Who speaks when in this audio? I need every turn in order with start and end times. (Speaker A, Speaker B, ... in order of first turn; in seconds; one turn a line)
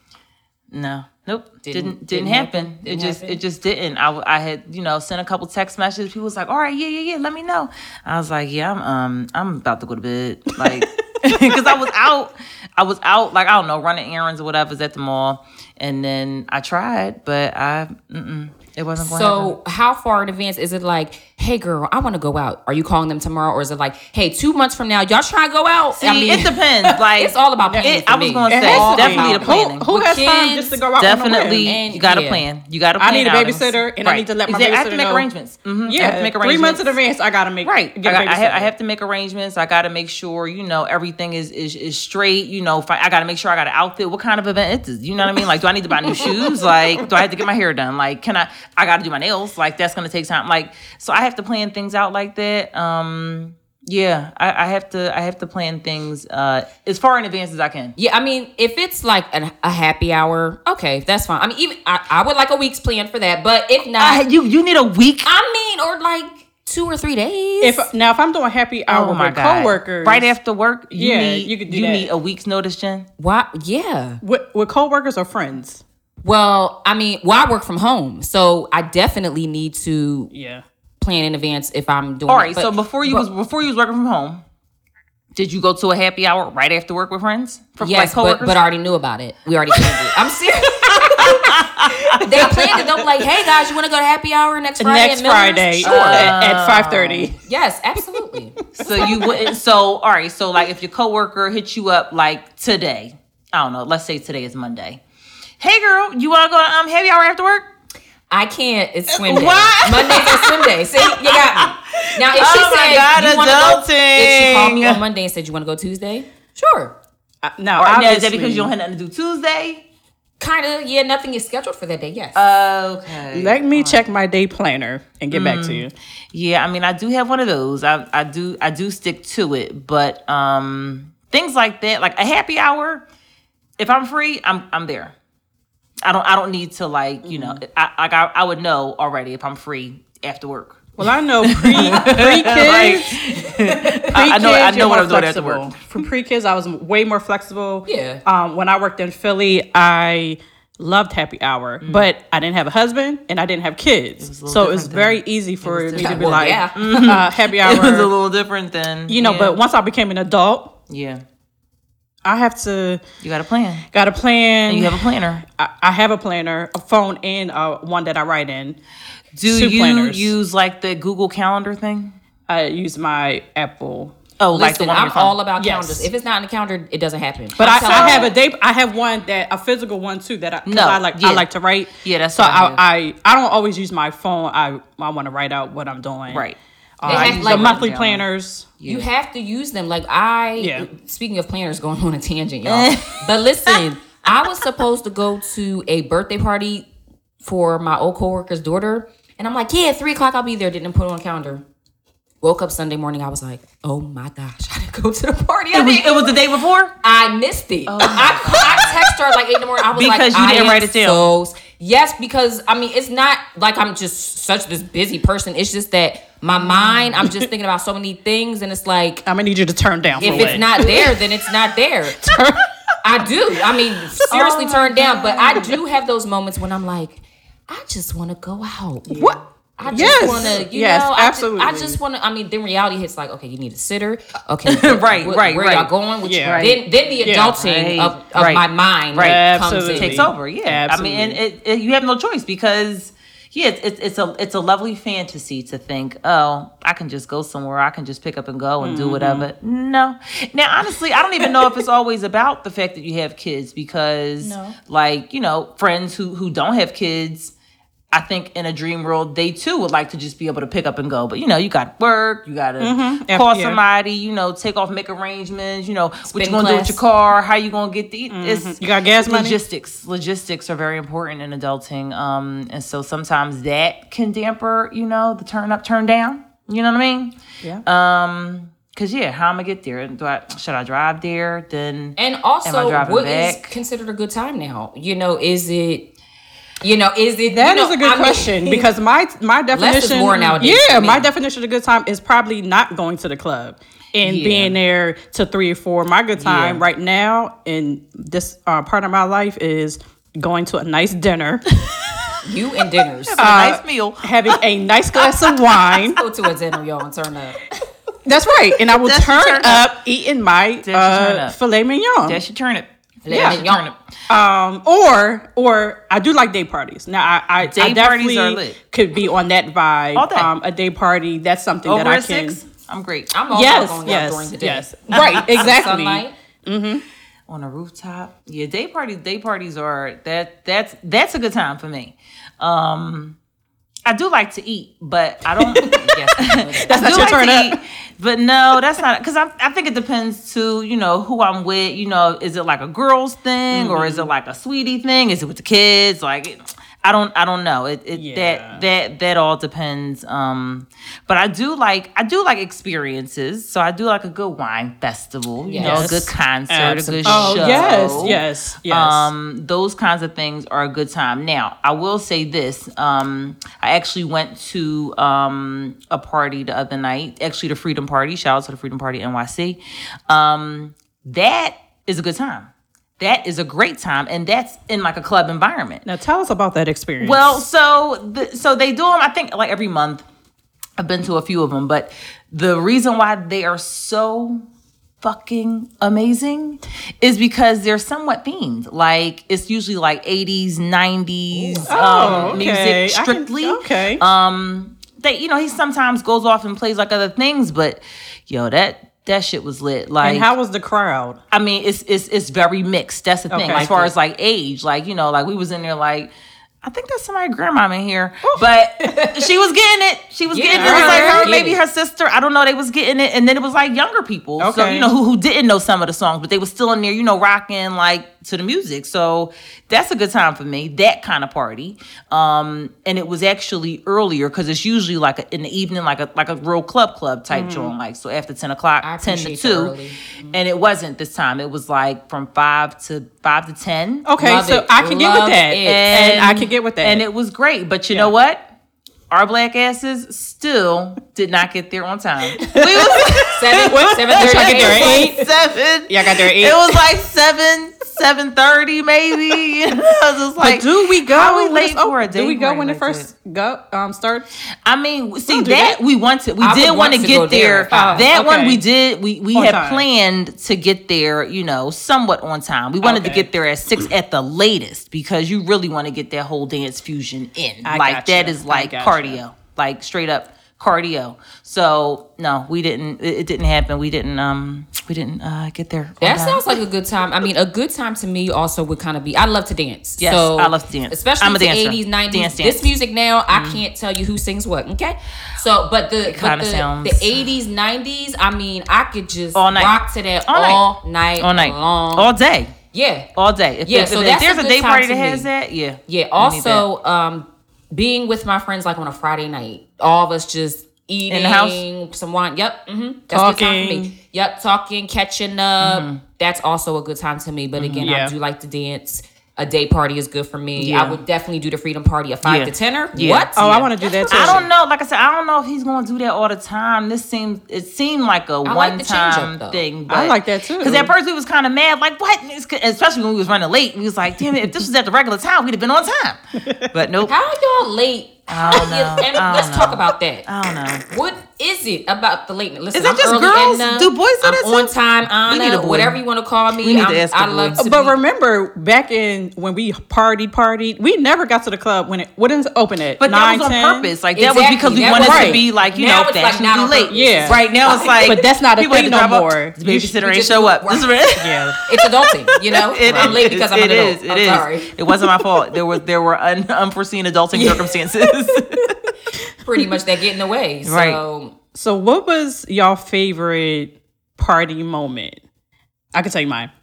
Speaker A: 0.7-19.6
Speaker B: 1.6-3.4
Speaker C: 10.6-11.7
Speaker B: 19.0-26.6
Speaker A: 26.0-29.9
Speaker B: 27.1-30.8
Speaker C: 27.6-27.9
Speaker C: 28.5-31.7
Speaker A: 31.0-37.0
Speaker B: 31.6-32.4
Speaker C: 33.0-35.3
Speaker C: 35.9-38.7
Speaker A: 37.6-57.9
Speaker C: 46.1-46.5
Speaker B: 58.0-64.2
Speaker A: 64.0-65.3
Speaker B: 65.2-67.9
Speaker C: 67.6-70.3
Speaker A: 68.9-73.1
Speaker C: 70.9-72.1
Speaker B: 73.2-74.2
Speaker C: 74.2-75.8
Speaker B: 76.2-80.3
Speaker C: 80.3-80.6
Speaker B: 81.0-83.3
Speaker A: 82.3-84.4
Speaker A: 85.3-88.6
Speaker B: 87.8-96.4
Speaker A: 90.8-92.9
Speaker C: 94.8-97.3
Speaker A: 95.8-97.3
Speaker B: 97.4-98.6
Speaker A: 98.7-105.0
Speaker C: 98.8-99.4
Speaker A: 105.6-107.7
Speaker B: 108.3-116.9
Speaker A: 109.1-115.0
Speaker C: 117.4-118.7
Speaker A: 117.8-119.8
Speaker B: 120.4-122.4
Speaker A: 122.3-124.0
Speaker C: 123.3-125.9
Speaker A: 125.3-133.0
Speaker A: 133.8-135.1
Speaker A: 136.0-145.9
Speaker C: 137.2-137.6
Speaker C: 141.0-143.2
Speaker C: 144.1-158.1
Speaker B: 147.9-148.2
Speaker A: 151.8-152.1
Speaker A: 154.2-159.6
Speaker B: 155.9-157.0
Speaker C: 159.1-160.7
Speaker A: 160.9-161.2
Speaker C: 162.2-163.0
Speaker A: 163.2-163.8
Speaker C: 163.9-168.8
Speaker A: 164.7-165.4
Speaker A: 169.3-172.1
Speaker C: 169.4-170.3
Speaker C: 172.5-174.2
Speaker A: 174.4-175.4
Speaker B: 174.5-178.3
Speaker C: 175.6-176.1
Speaker C: 177.6-186.4
Speaker A: 177.6-178.3
Speaker A: 180.7-181.5
Speaker A: 182.0-182.8
Speaker A: 186.3-188.2
Speaker C: 187.0-188.7
Speaker B: 187.1-187.8
Speaker A: 188.8-189.1
Speaker B: 188.8-196.9
Speaker C: 190.6-190.9
Speaker A: 192.6-193.8
Speaker B: 197.4-201.6
Speaker B: 202.4-206.4
Speaker A: 205.7-206.9
Speaker B: 207.0-219.2
Speaker A: 207.9-209.2
Speaker A: 209.9-211.3
Speaker A: 216.8-217.2
Speaker C: 217.2-217.5
Speaker C: 219.2-221.2
Speaker A: 220.2-220.8
Speaker B: 220.2-222.2
Speaker C: 222.2-222.7
Speaker B: 223.0-240.3
Speaker A: 224.3-225.8
Speaker A: 229.1-230.5
Speaker C: 229.9-232.0
Speaker A: 234.7-235.9
Speaker C: 236.2-237.6
Speaker A: 236.5-236.8
Speaker A: 237.6-257.5
Speaker C: 239.2-241.4
Speaker C: 248.8-249.5
Speaker C: 251.4-251.7
Speaker C: 254.4-254.8
Speaker A: 258.1-283.7
Speaker C: 262.8-263.8
Speaker B: 266.3-267.0
Speaker C: 268.3-269.6
Speaker B: 282.2-286.1
Speaker B: 286.8-288.9
Speaker C: 287.5-302.4
Speaker B: 289.7-291.3
Speaker A: 294.2-294.7
Speaker A: 296.4-296.8
Speaker B: 302.4-303.5
Speaker A: 303.3-304.6
Speaker C: 303.4-306.2
Speaker A: 305.2-306.0
Speaker B: 306.1-307.6
Speaker C: 308.2-312.4
Speaker A: 308.9-309.9
Speaker A: 310.8-311.6
Speaker A: 312.2-314.0
Speaker B: 313.2-313.9
Speaker C: 313.3-313.6
Speaker C: 314.3-322.6
Speaker A: 317.6-318.8
Speaker A: 320.1-320.5
Speaker A: 321.8-323.3
Speaker B: 323.3-326.3
Speaker C: 323.5-327.0
Speaker A: 325.1-325.5
Speaker A: 327.5-333.4
Speaker A: 334.1-376.0
Speaker C: 335.6-336.0
Speaker B: 335.8-337.3
Speaker C: 336.9-337.8
Speaker C: 343.7-344.3
Speaker C: 348.1-348.8
Speaker B: 355.6-356.1
Speaker C: 355.8-359.3
Speaker B: 357.2-358.4
Speaker C: 376.0-377.6
Speaker A: 377.2-380.2
Speaker A: 381.0-384.6
Speaker A: 385.2-400.5
Speaker B: 391.5-392.7
Speaker C: 391.9-394.2
Speaker C: 400.2-401.4
Speaker A: 401.5-406.3
Speaker C: 403.5-403.9
Speaker B: 403.7-404.1
Speaker A: 406.8-429.9
Speaker B: 409.1-409.4
Speaker B: 410.5-411.8
Speaker C: 410.7-411.6
Speaker C: 414.6-415.1
Speaker C: 427.5-427.9
Speaker B: 429.0-430.2
Speaker A: 430.5-434.3
Speaker C: 434.2-437.2
Speaker B: 434.4-436.2
Speaker A: 435.8-438.6
Speaker A: 439.3-453.3
Speaker C: 442.6-445.4
Speaker B: 443.5-445.4
Speaker C: 446.1-447.0
Speaker C: 450.6-454.5
Speaker A: 454.8-476.8
Speaker C: 455.5-456.0
Speaker B: 456.6-458.3
Speaker C: 457.9-458.8
Speaker C: 459.5-460.1
Speaker C: 463.0-463.5
Speaker C: 467.8-469.4
Speaker B: 476.2-492.3
Speaker A: 480.2-482.9
Speaker A: 483.5-483.8
Speaker A: 486.2-487.5
Speaker A: 489.5-490.8
Speaker A: 491.4-492.7
Speaker B: 492.9-493.3
Speaker A: 493.4-496.9
Speaker B: 493.8-495.5
Speaker B: 496.1-514.7
Speaker A: 501.3-501.8
Speaker C: 503.3-504.1
Speaker A: 505.8-506.2
Speaker A: 507.8-508.1
Speaker C: 508.0-508.3
Speaker A: 510.8-511.2
Speaker A: 512.4-513.5
Speaker C: 513.5-514.6
Speaker A: 514.3-527.3
Speaker B: 518.6-519.8
Speaker C: 520.1-521.1
Speaker B: 527.2-530.5
Speaker A: 528.5-531.0
Speaker B: 531.1-538.1
Speaker A: 532.9-534.9
Speaker A: 535.5-536.2
Speaker A: 536.8-537.8
Speaker C: 537.8-544.1
Speaker A: 543.2-551.8
Speaker B: 544.3-548.3
Speaker C: 545.0-545.6
Speaker C: 547.1-547.6
Speaker C: 548.2-550.1
Speaker B: 550.1-551.1
Speaker C: 551.4-551.8
Speaker B: 551.9-554.9
Speaker A: 552.8-559.0
Speaker C: 553.1-553.5
Speaker B: 557.5-557.9
Speaker B: 559.6-561.5
Speaker A: 560.8-561.2
Speaker C: 561.7-565.4
Speaker C: 566.1-566.7